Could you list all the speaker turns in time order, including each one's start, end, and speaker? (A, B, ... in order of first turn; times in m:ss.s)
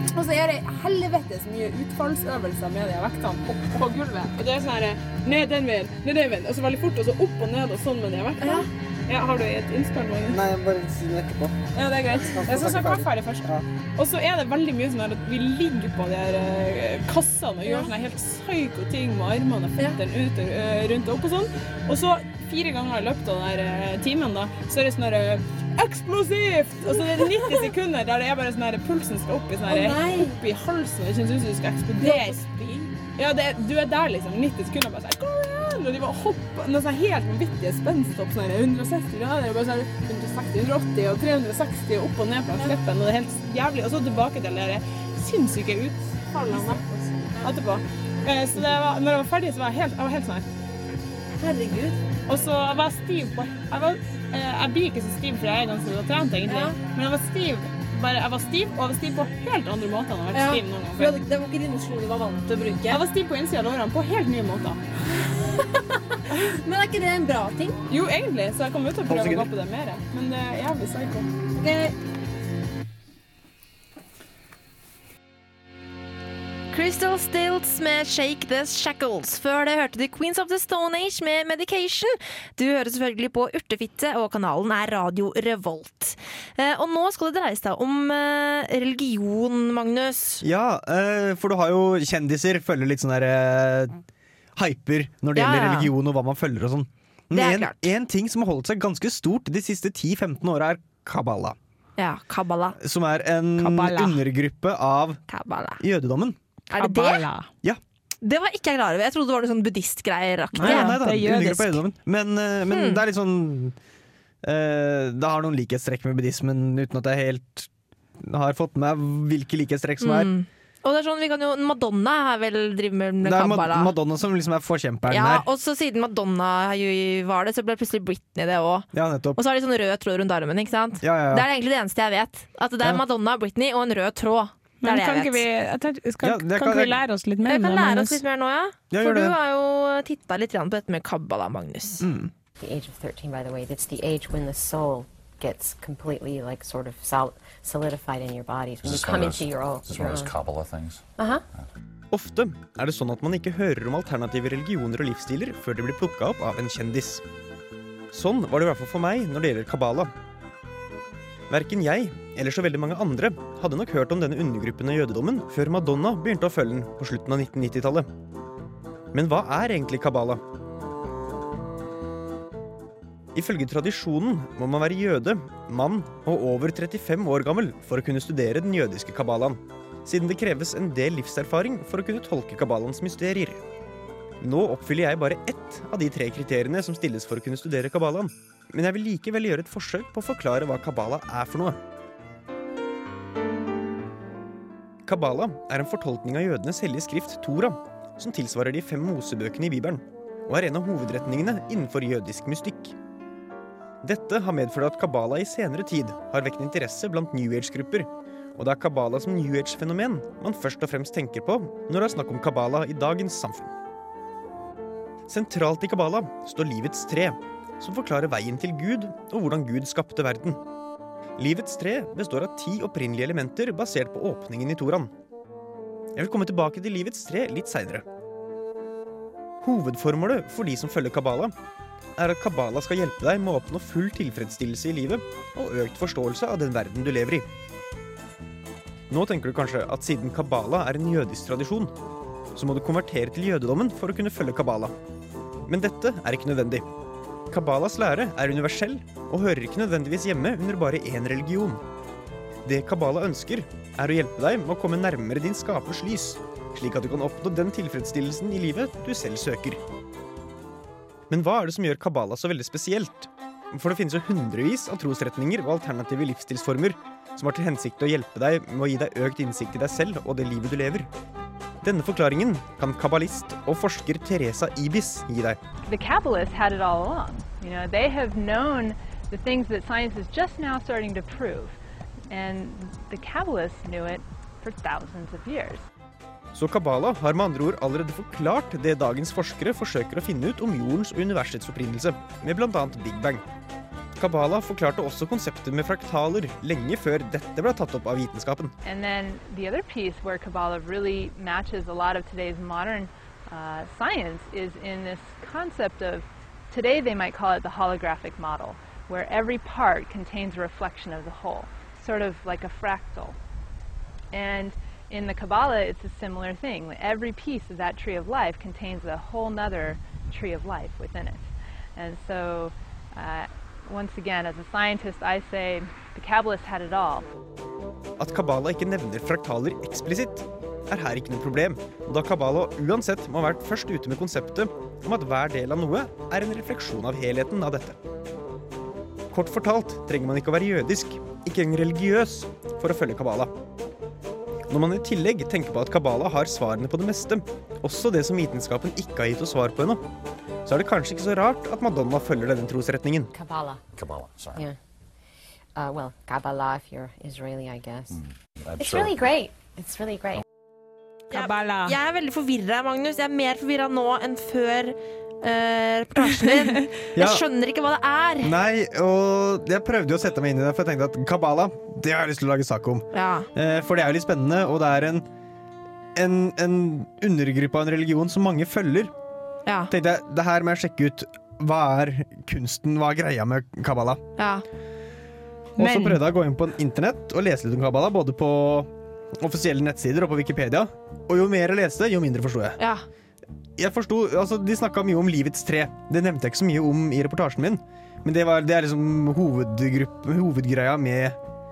0:00.1-0:10.4 A
0:10.3-0:11.6 B
0:11.7-0:32.4 A
0:12.1-0:13.6 B
0:26.9-0:27.7 C
0:29.7-0:30.4 C
0:32.0-0:32.9 C
0:33.2-0:46.8 A
0:46.5-0:47.5 C
0:47.4-0:50.5 A
0:51.4-0:52.0 C
0:52.3-1:01.1 A
0:56.5-0:56.8 C
1:00.3-1:03.0 C
1:02.9-1:04.8 A
1:06.6-1:07.8 C
1:07.9-1:11.3 A
1:09.1-1:09.5 B
1:11.6-1:11.9 C
1:16.7-1:30.4 D
1:30.4-1:34.0 B
1:34.6-1:41.6 B
1:35.3-1:35.9 D
1:37.3-1:37.9 D
1:42.0-1:42.8 D
1:42.8-1:45.2 B
1:43.6-1:44.2 A
1:45.3-1:45.8 D
1:45.8-1:46.4 B
1:46.7-1:47.3 D
1:46.8-1:47.5 A
1:48.2-1:51.0 D
1:50.5-1:51.8 A
1:50.6-1:53.8 B
1:52.7-1:53.0 D
1:54.4-2:00.3 B
2:00.0-2:03.9 D
2:03.2-2:05.4 B
2:05.1-2:15.4 D
2:08.9-2:09.4 B
2:11.0-2:11.4 B
2:14.8-2:18.2 A
2:16.2-2:17.0 B
2:17.4-2:22.0 D
2:18.9-2:19.4 B
2:22.0-2:22.3 B
2:22.6-2:30.3 E
2:28.8-2:31.0 F
2:32.1-2:37.2 B
2:38.1-2:40.1 B
2:41.5-2:48.1 B
2:49.1-2:50.4 B
2:53.3-3:03.6 B
3:04.4-3:11.8 B
3:15.0-3:23.0 B
3:24.0-3:33.7 B
3:35.3-3:40.6 B
3:41.4-3:45.1 B
3:46.2-3:48.0 B
3:49.6-3:51.5 B
3:52.2-3:57.4 B
3:59.1-4:01.9 B
4:02.5-4:04.9 B
4:05.7-4:06.9 B
4:07.5-4:11.8 B
4:12.6-4:19.8 B
4:21.3-4:31.1 B
4:31.8-4:35.6 B
4:35.8-4:41.7 G
4:42.3-4:45.8 G
4:46.5-4:53.4 B
4:54.2-4:58.7 B
4:58.8-5:13.4 G
5:14.3-5:27.3 G
5:28.2-5:38.0 B
5:39.3-5:43.5 B
5:44.7-5:50.0 B
5:50.6-5:53.3 B
5:53.3-5:53.8 E
5:53.9-5:54.6 F
5:55.8-5:58.2 E
5:58.1-5:59.2 F
5:58.8-6:00.4 E
6:01.3-6:02.0 A
6:01.3-6:08.5 D
6:07.2-6:07.4 B
6:08.4-6:15.2 B
6:13.1-6:13.5 D
6:16.1-6:19.1 B
6:19.6-6:19.9 D
6:19.9-6:24.2 B
6:24.4-6:24.6 D
6:25.8-6:26.2 A
6:25.8-6:32.8 B
6:32.8-6:33.0 D
6:33.8-6:41.4 B